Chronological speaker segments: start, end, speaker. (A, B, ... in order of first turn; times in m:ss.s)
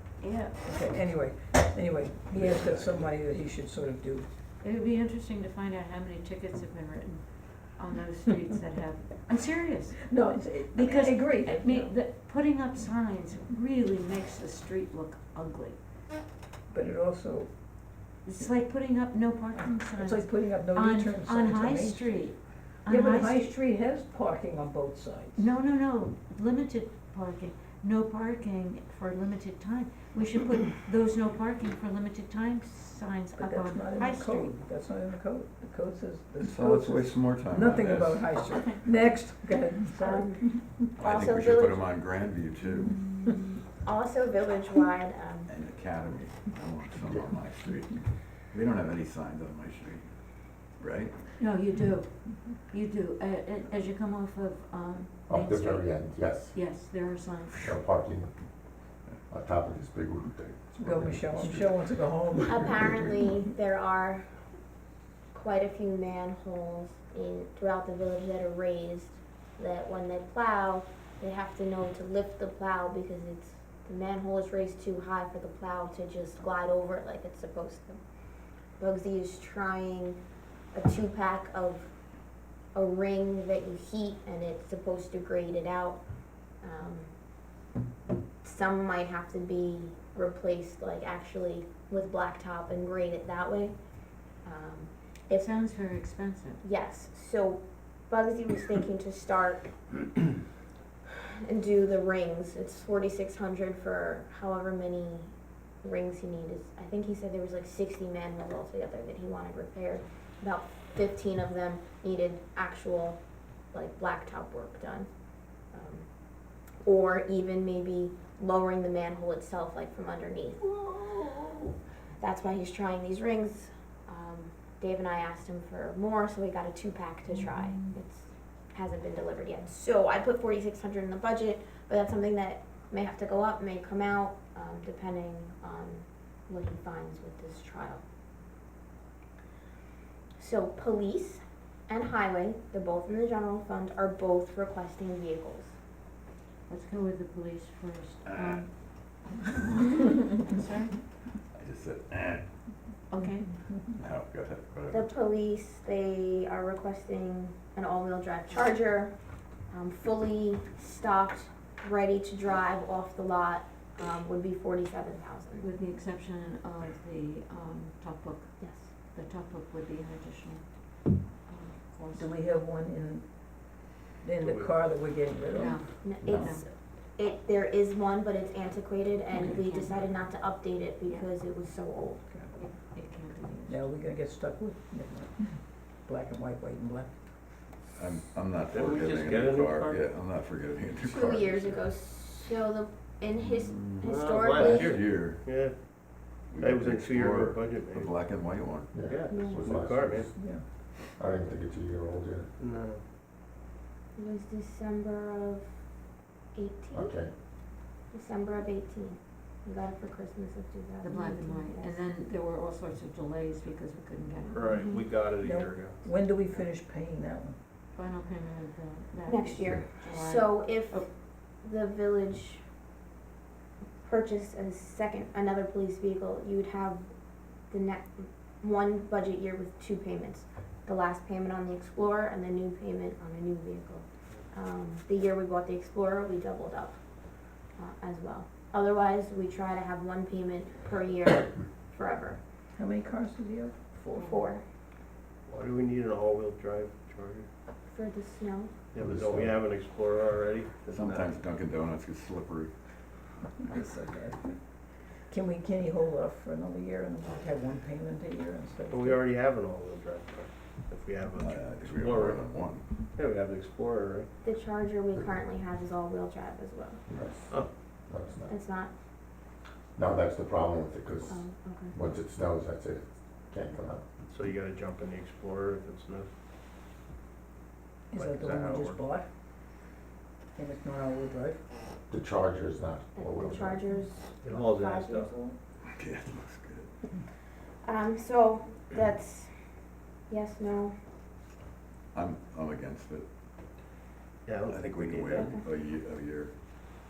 0:00.2-0:00.6 A
0:00.6-0:04.3 B
0:02.4-0:02.7 C
0:04.6-0:10.1 A
0:10.0-0:11.9 B
0:10.7-0:15.8 A
0:16.7-0:17.5 B
0:18.2-0:23.6 A
0:19.6-0:22.3 B
0:22.9-0:25.4 B
0:25.4-0:34.5 A
0:33.4-0:40.5 B
0:36.4-0:38.3 C
0:39.9-0:41.9 D
0:41.0-0:43.3 C
0:43.8-0:45.5 D
0:45.5-0:50.0 C
0:50.8-0:51.2 C
0:51.4-0:57.8 A
0:55.3-0:56.6 E
0:57.6-0:58.3 E
0:59.3-1:01.8 E
1:00.8-1:03.3 B
1:02.5-1:04.3 D
1:05.3-1:18.0 D
1:18.8-1:20.2 D
1:20.7-1:21.9 D
1:22.8-1:26.0 D
1:26.6-1:27.1 D
1:28.4-1:33.8 D
1:34.4-1:35.5 D
1:35.3-1:36.6 A
1:36.6-1:40.0 D
1:41.3-1:53.2 D
1:53.7-1:55.1 D
1:55.7-1:56.1 D
1:56.8-2:18.0 D
2:20.4-2:25.7 D
2:26.7-2:28.7 A
2:29.5-2:31.0 A
2:31.6-2:32.4 C
2:33.1-2:33.5 A
2:33.9-2:35.1 C
2:34.9-2:39.1 D
2:39.7-2:45.7 D
2:45.6-2:48.6 A
2:49.1-2:50.6 A
2:51.5-2:52.3 A
2:52.2-2:53.3 B
2:54.2-2:55.8 B
2:54.4-2:54.7 F
2:55.5-2:56.7 A
2:56.0-3:02.2 D
2:59.3-3:00.0 A
3:02.6-3:03.8 A
3:03.7-3:05.5 B
3:06.0-3:07.1 B
3:08.0-3:11.8 C
3:08.7-3:10.1 F
3:11.0-3:15.3 D
3:13.6-3:15.5 C
3:14.0-3:15.8 F
3:16.5-3:18.9 C
3:16.6-3:18.2 F
3:18.9-3:20.3 E
3:19.0-3:20.3 F
3:19.3-3:19.7 D
3:20.4-3:20.6 B
3:21.1-3:22.5 E
3:22.6-3:23.0 F
3:24.2-3:25.7 D
3:26.5-3:27.2 D
3:26.9-3:27.3 E
3:28.1-3:32.0 D
3:31.0-3:35.0 A
3:34.5-3:36.0 F
3:35.4-3:37.6 B
3:38.0-3:41.1 A
3:39.3-3:41.1 D
3:41.6-3:42.6 D
3:44.0-3:47.1 D
3:47.7-3:57.0 D
3:57.8-4:02.4 D
4:02.8-4:04.4 B
4:04.2-4:04.4 A
4:04.2-4:04.6 D
4:05.5-4:07.5 F
4:07.9-4:08.7 D
4:08.9-4:11.4 F
4:09.0-4:09.6 E
4:10.9-4:12.7 C
4:13.6-4:14.6 B
4:15.3-4:19.2 B
4:18.9-4:22.4 F
4:21.4-4:22.8 C
4:23.2-4:24.3 F
4:24.4-4:27.0 D
4:27.1-4:27.5 E
4:28.1-4:28.5 E
4:28.5-4:28.9 D
4:30.0-4:34.0 E
4:31.3-4:32.0 D
4:34.3-4:36.3 F
4:38.1-4:39.3 B
4:38.1-4:39.0 F
4:40.6-4:41.6 B
4:42.1-4:43.8 E
4:43.2-4:45.6 D
4:44.4-4:45.3 F
4:45.9-4:46.9 C
4:47.8-4:49.6 D
4:50.3-4:51.0 D
4:52.1-4:53.3 C
4:54.5-4:55.6 F
4:54.7-4:56.5 C
4:55.4-4:55.6 D